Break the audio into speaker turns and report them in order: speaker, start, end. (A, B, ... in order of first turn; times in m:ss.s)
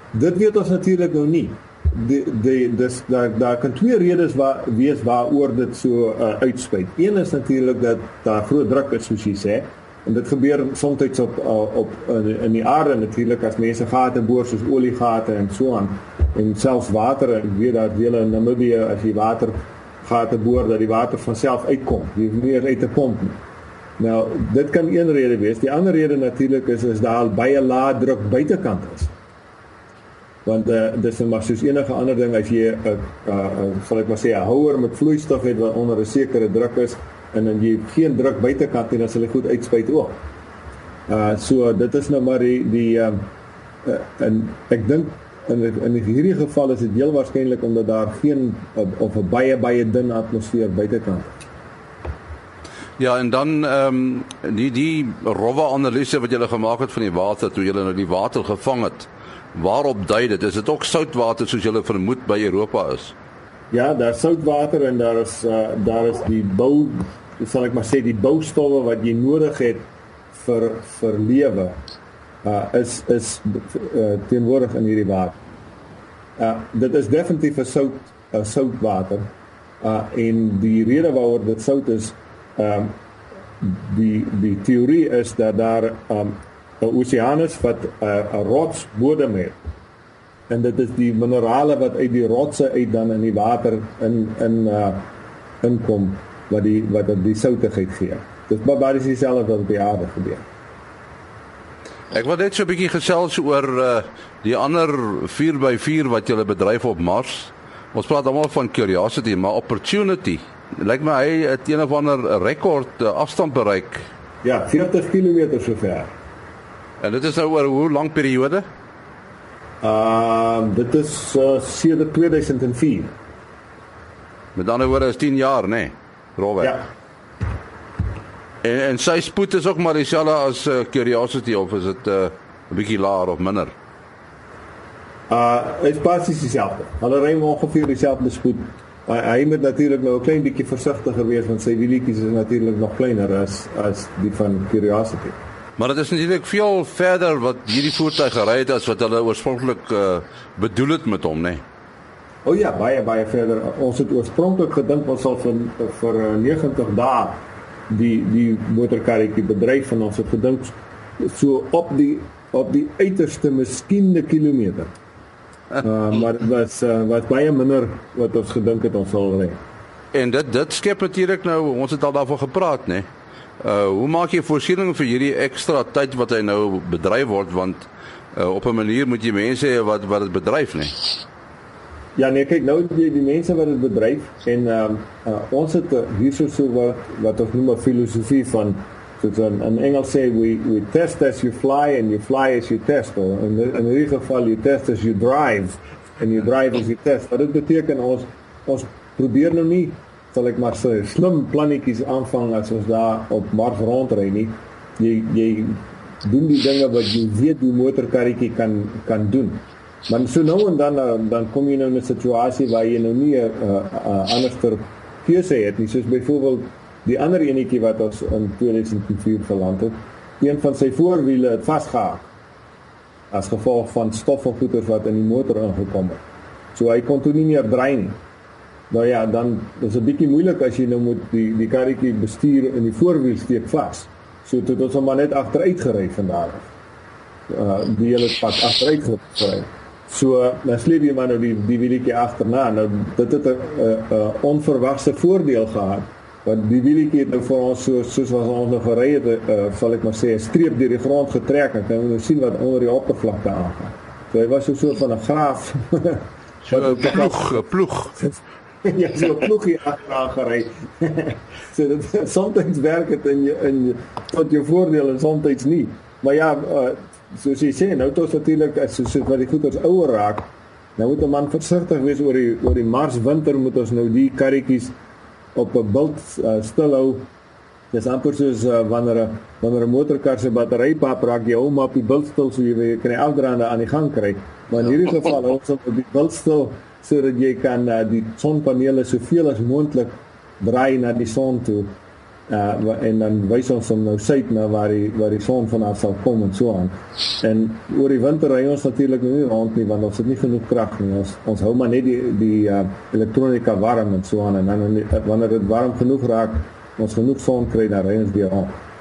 0:00.1-0:23.4 A
0:24.0-0:29.1 A
0:30.4-0:40.2 A
0:41.1-0:43.3 A
0:43.8-0:51.4 A
0:53.0-1:03.1 B
1:03.7-1:11.8 A
1:12.4-1:15.4 A
1:16.4-1:19.3 A
1:19.8-1:23.0 A
1:23.6-1:29.6 A
1:30.5-1:35.1 A
1:35.6-1:40.4 A
1:42.1-1:54.0 B
1:54.4-1:56.1 A
1:57.0-1:58.7 B
1:59.8-2:03.1 A
2:04.6-2:06.8 B
2:08.6-2:13.7 B
2:15.3-2:25.4 A
2:25.8-2:31.6 B
2:32.4-2:44.9 A
2:45.8-2:49.6 A
2:50.1-2:53.1 B
2:53.6-3:01.0 B
3:02.2-3:42.3 A
3:43.3-3:46.2 A
3:46.8-3:48.2 A
3:48.9-3:56.7 A
3:57.5-4:17.6 A
4:16.7-4:18.2 B
4:18.8-4:34.9 A
4:35.6-4:37.3 A
4:37.9-4:52.0 A
4:52.5-5:08.7 A